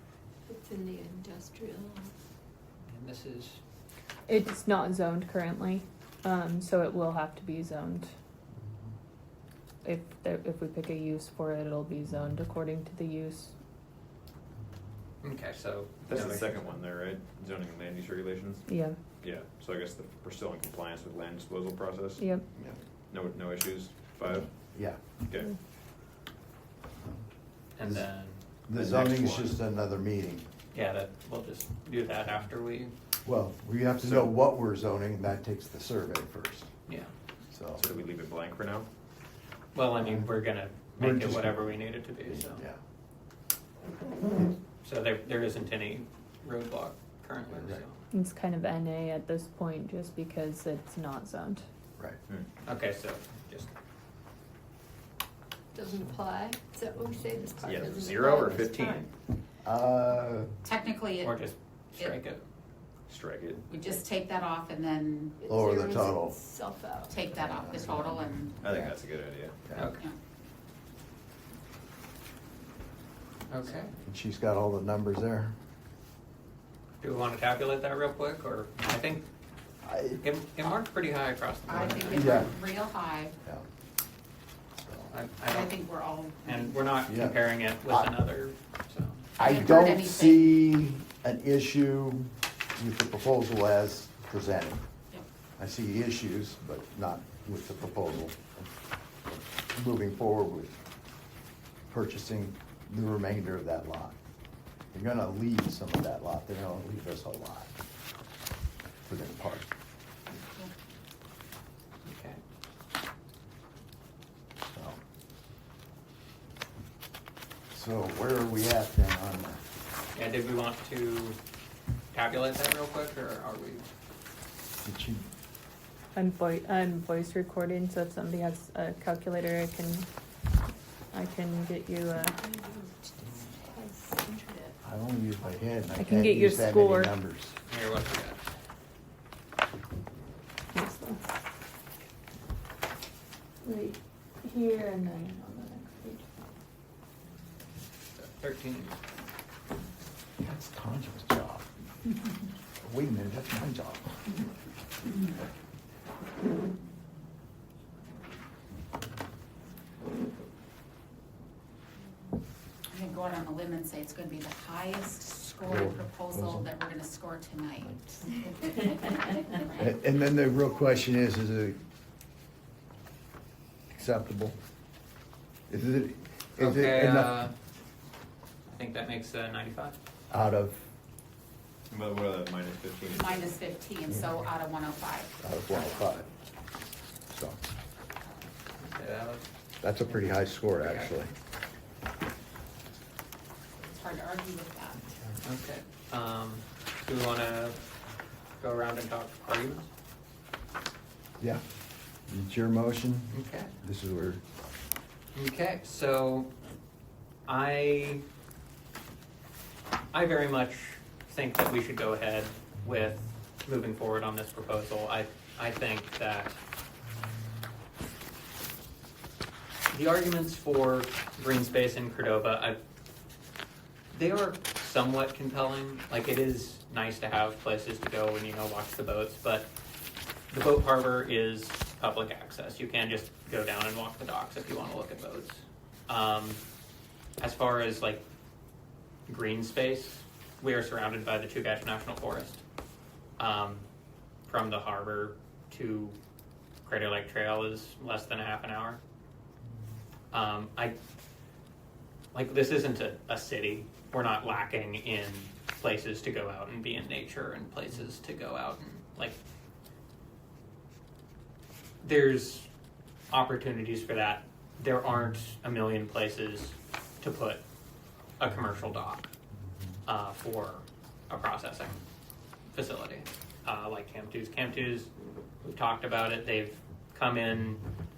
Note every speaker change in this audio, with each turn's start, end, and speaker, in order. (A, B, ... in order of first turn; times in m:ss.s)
0:00.5-0:02.1 A
0:02.9-0:03.6 B
0:04.3-0:08.1 C
0:09.8-0:13.5 C
0:15.2-0:16.6 B
0:16.1-0:18.7 D
0:18.7-0:19.0 C
0:19.2-0:22.2 D
0:22.2-0:22.5 C
0:23.1-0:24.5 D
0:24.7-0:25.0 E
0:25.2-0:25.5 D
0:27.8-0:29.6 B
0:28.7-0:30.4 E
0:30.7-0:32.9 B
0:33.2-0:36.7 E
0:34.0-0:34.3 B
0:37.5-0:37.8 E
0:37.8-0:38.9 D
0:39.8-0:42.6 B
0:40.0-0:40.3 E
0:41.0-0:41.7 E
0:42.3-0:42.8 E
0:44.8-0:48.0 B
0:47.5-0:47.8 E
0:48.1-0:51.6 C
0:52.6-0:53.7 B
0:55.7-0:58.7 A
0:57.6-0:59.0 D
0:58.8-0:59.1 C
0:59.6-1:00.5 E
1:00.6-1:01.4 F
1:01.2-1:02.4 B
1:03.1-1:03.7 D
1:03.7-1:05.4 F
1:05.4-1:07.2 A
1:05.5-1:06.4 E
1:07.1-1:08.9 F
1:07.4-1:09.0 E
1:08.6-1:09.6 D
1:09.8-1:10.0 B
1:13.5-1:13.9 B
1:14.1-1:15.5 E
1:17.0-1:19.2 B
1:19.8-1:20.2 E
1:20.2-1:22.5 B
1:21.7-1:23.4 F
1:22.1-1:22.5 E
1:24.8-1:25.1 E
1:25.1-1:25.8 B
1:25.5-1:26.8 F
1:26.4-1:29.2 B
1:27.1-1:28.1 E
1:29.4-1:34.8 E
1:29.4-1:30.6 F
1:35.6-1:38.7 E
1:39.3-1:40.7 E
1:41.9-1:44.2 E
1:44.9-1:47.7 E
1:49.1-1:49.7 E
1:50.3-1:50.7 F
1:52.0-1:52.4 B
1:54.7-1:55.0 E
1:57.7-1:59.6 E
2:00.2-2:01.4 B
2:02.1-2:03.8 B
2:04.8-2:05.3 E
2:06.2-2:10.1 C
2:11.1-2:12.4 C
2:12.4-2:14.7 A
2:14.8-2:17.6 E
2:16.0-2:17.1 C
2:17.7-2:18.4 B
2:20.7-2:21.3 C
2:23.6-2:26.3 C
2:28.2-2:29.0 B
2:30.4-2:31.7 E
2:32.8-2:34.2 E
2:42.9-2:49.9 F
2:45.6-2:46.7 E
2:49.8-2:51.8 E
2:53.9-2:54.6 E
2:55.7-2:57.4 E
2:56.6-2:57.5 B
2:58.7-3:00.0 B
3:00.3-3:00.9 E
3:01.9-3:03.6 D
3:03.1-3:05.4 F
3:05.4-3:06.3 E
3:07.3-3:07.7 E
3:08.8-3:09.4 B
3:09.8-3:11.3 E
3:10.8-3:11.1 B
3:13.8-3:15.1 F
3:15.4-3:17.8 B
3:18.6-3:19.9 B
3:22.3-3:24.4 E
3:23.3-3:23.7 B
3:25.4-3:26.5 B
3:27.5-3:28.2 B
3:30.1-3:36.6 B
3:39.9-3:42.8 B
3:44.1-3:49.7 B
3:50.5-3:56.6 B
3:57.4-3:58.2 B
3:59.3-4:02.6 B
4:03.4-4:03.9 B
4:04.5-4:06.2 B
4:06.8-4:09.0 B
4:10.3-4:11.0 B
4:12.3-4:19.4 B
4:22.0-4:22.7 B
4:23.3-4:27.6 B
4:28.4-4:29.3 B
4:30.1-4:32.0 B
4:32.7-4:35.1 B
4:35.6-4:37.8 B